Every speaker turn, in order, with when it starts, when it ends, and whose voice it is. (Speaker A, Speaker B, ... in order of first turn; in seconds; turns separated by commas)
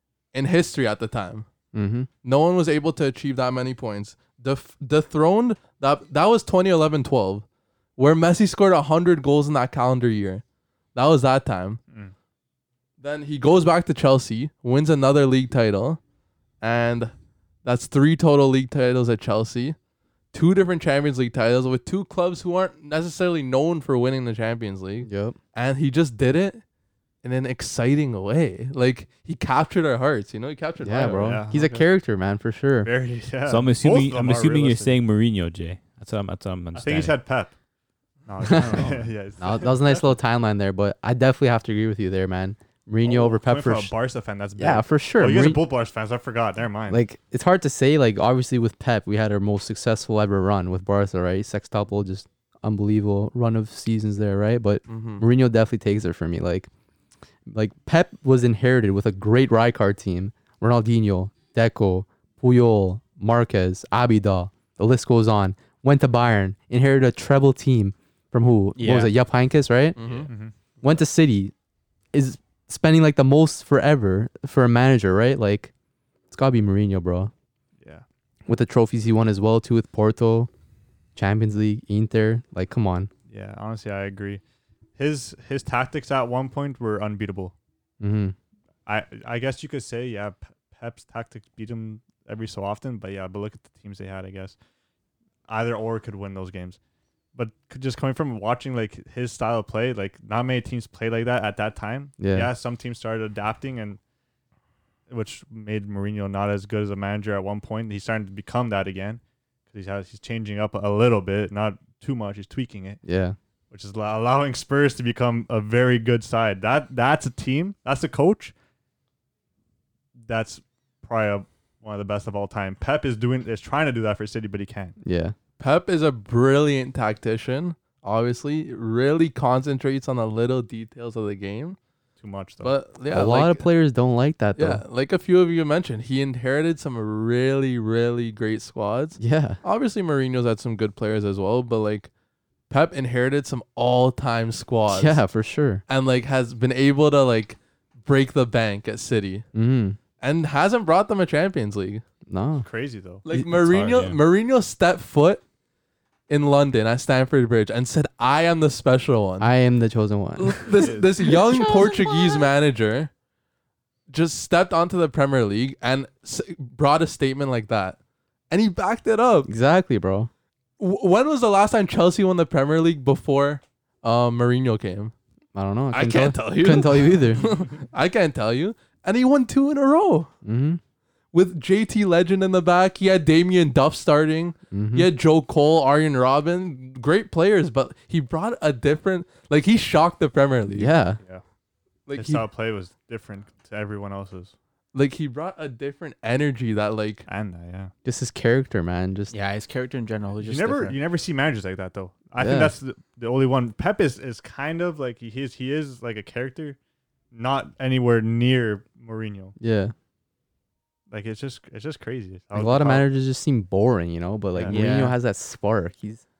Speaker A: 0.3-1.5, Speaker B: 1.7-2.1, Speaker A: 2.2-7.4, Speaker A: 8.0-10.4, Speaker A: 10.9-11.8, Speaker A: 13.0-16.0, Speaker A: 16.6-17.1, Speaker A: 17.6-19.8, Speaker A: 20.3-26.6, Speaker B: 25.0-25.4, Speaker A: 27.2-31.4, Speaker B: 30.8-32.9, Speaker C: 31.2-31.9, Speaker C: 32.8-34.9, Speaker D: 33.5-37.2, Speaker C: 36.7-37.5, Speaker C: 38.2-40.1, Speaker B: 38.5-43.9, Speaker C: 43.0-47.0, Speaker B: 44.6-45.6, Speaker B: 46.9-56.7, Speaker A: 54.9-55.2, Speaker B: 57.5-70.0, Speaker E: 68.8-69.1, Speaker A: 70.0-70.3, Speaker C: 70.1-70.5, Speaker B: 70.8-71.5, Speaker B: 72.1-75.7, Speaker B: 76.3-77.3, Speaker B: 78.5-80.5, Speaker B: 81.1-83.1, Speaker C: 83.3-84.4, Speaker C: 85.0-87.5, Speaker B: 88.0-88.3, Speaker C: 88.8-94.5, Speaker C: 95.5-96.8, Speaker C: 97.3-104.0, Speaker B: 102.2-102.5, Speaker C: 105.1-113.0, Speaker B: 113.0-113.4, Speaker C: 113.7-118.5, Speaker C: 120.2-125.0, Speaker B: 125.0-125.3, Speaker A: 125.6-131.8, Speaker C: 132.2-132.8, Speaker A: 132.6-133.7, Speaker B: 133.1-134.8, Speaker A: 134.5-142.1, Speaker B: 139.2-139.6, Speaker A: 142.7-145.2, Speaker B: 144.9-145.8, Speaker A: 145.9-149.4, Speaker B: 149.5-150.0, Speaker A: 150.2-152.0, Speaker B: 152.3-152.7, Speaker C: 152.6-153.2, Speaker A: 153.2-155.4, Speaker D: 153.6-154.2, Speaker A: 156.3-159.5, Speaker B: 159.4-160.9, Speaker A: 160.4-163.1, Speaker C: 160.8-161.3, Speaker A: 164.1-168.0, Speaker A: 168.5-169.5, Speaker B: 169.4-170.3, Speaker A: 170.8-175.1, Speaker B: 175.5-177.5, Speaker A: 175.9-180.3, Speaker B: 180.4-180.8, Speaker A: 181.3-190.9, Speaker B: 184.7-185.1, Speaker B: 190.7-191.2, Speaker A: 192.1-192.4, Speaker C: 192.1-194.5, Speaker A: 194.9-197.3, Speaker C: 197.2-197.9, Speaker B: 198.0-199.3, Speaker E: 199.3-201.0, Speaker C: 200.4-206.8, Speaker B: 202.4-202.7, Speaker C: 207.3-209.6, Speaker B: 209.6-209.9, Speaker C: 211.1-213.1, Speaker B: 212.5-216.2, Speaker E: 214.7-215.2